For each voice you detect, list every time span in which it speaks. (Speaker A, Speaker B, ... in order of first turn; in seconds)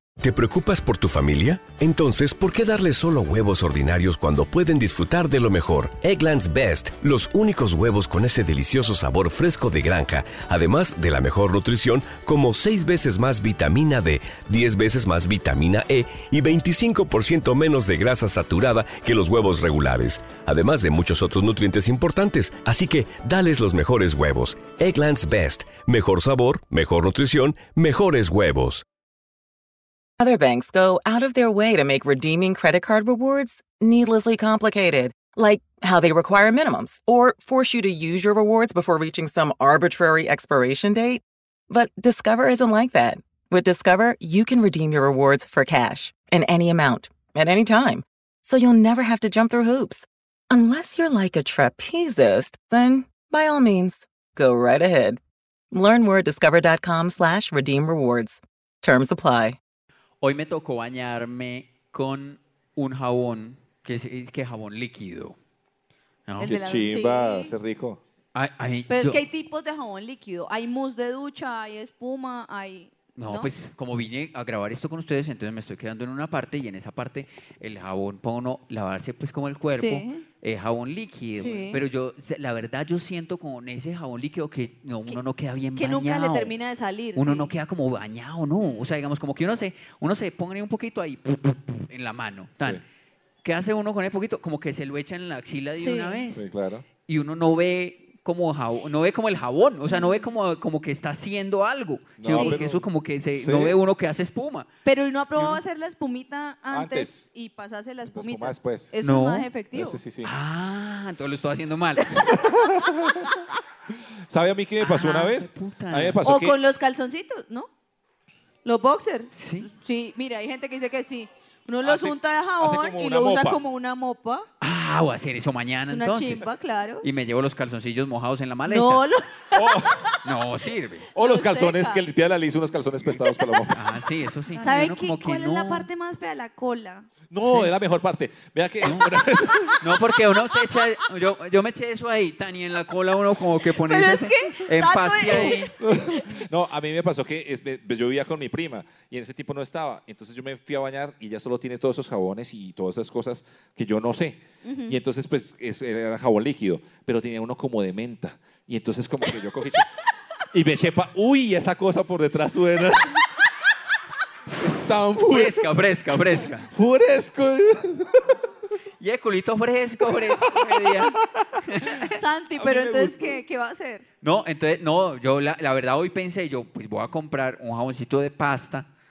Speaker A: 0.2-28.8
Speaker B: 30.2-55.2, 55.7-59.6
Speaker C: 60.2-65.4, 66.3-66.6, 68.3-69.2, 73.2-86.5, 87.2-92.8, 93.4-96.5, 97.1-104.7, 109.0-109.5, 110.2-112.4, 114.8-116.2, 119.3-119.7, 124.6-126.5, 127.0-129.0, 130.2-131.1, 133.7-135.9, 138.8-139.1, 139.8-145.7, 165.3-166.7, 169.0-172.2, 174.2-178.9
Speaker D: 66.4-67.5, 68.9-73.5, 79.8-80.2, 81.4-81.8, 85.8-87.5, 95.8-96.2, 99.9-100.3, 102.3-102.6, 104.8-110.0, 112.0-112.5, 116.2-117.7, 118.7-124.5, 125.9-127.1, 128.7-130.2, 131.2-132.0, 133.2-133.7, 134.6-137.1, 143.6-146.3, 154.7-155.0, 172.1-174.1
Speaker E: 66.4-68.0, 96.3-96.8, 102.2-102.9, 103.4-103.8, 106.7-107.2, 108.1-108.9, 109.7-110.3, 112.3-113.4, 113.9-116.6, 121.8-123.6, 129.6-130.0, 131.2-133.8, 137.3-140.0, 145.3-159.9, 160.5-163.3, 164.6-165.8, 166.3-168.4, 170.1-171.4, 172.6-173.4